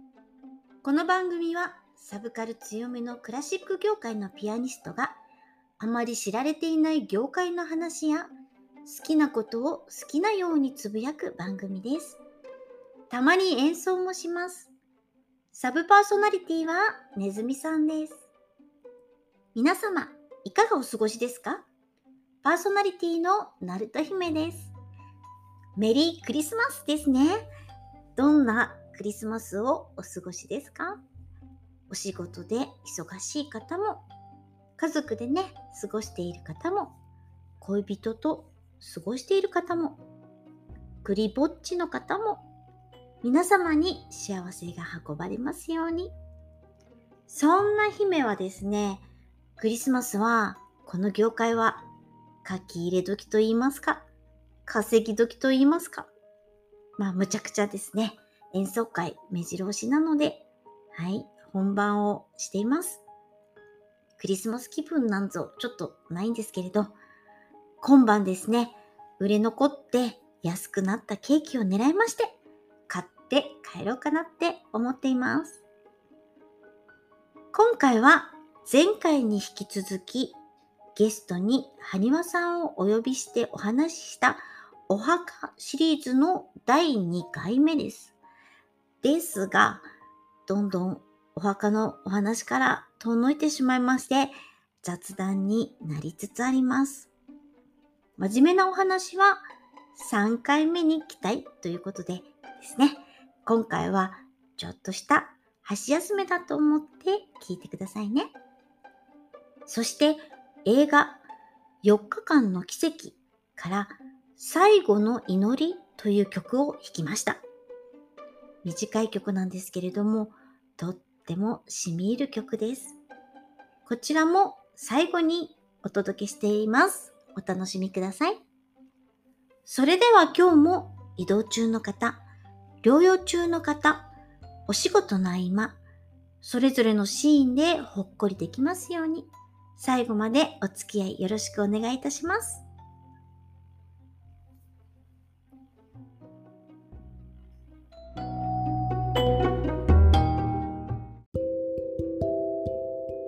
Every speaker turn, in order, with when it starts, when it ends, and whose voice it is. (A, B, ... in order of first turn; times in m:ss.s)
0:00.8-0:05.2 A
0:05.8-0:08.3 A
0:08.8-0:12.2 A
0:13.1-0:14.7 A
0:15.5-0:18.2 A
0:19.5-0:21.6 A
0:22.4-0:24.7 A
0:25.8-0:27.5 A
0:28.2-0:31.0 A
0:31.9-0:34.0 A
0:34.8-0:37.0 A
0:37.6-0:40.0 A
0:41.0-0:42.4 A
0:43.2-0:46.1 A
0:47.3-0:49.0 A
0:49.6-0:51.9 A
0:52.4-0:54.0 A
0:54.6-0:56.1 A
0:57.0-1:03.0 A
1:04.2-1:06.9 A
1:07.8-1:12.3 A
1:12.9-1:15.6 A
1:17.5-1:20.4 A
1:21.0-1:28.1 A
1:29.0-1:29.8 A
1:30.5-1:37.1 A
1:38.2-1:39.4 A
1:39.9-1:48.3 A
1:49.7-1:51.2 A
1:51.8-1:57.4 A
1:58.6-2:03.0 A
2:03.8-2:08.4 A
2:09.6-2:12.2 A
2:12.8-2:14.1 A
2:14.7-2:15.8 A
2:16.4-2:22.6 A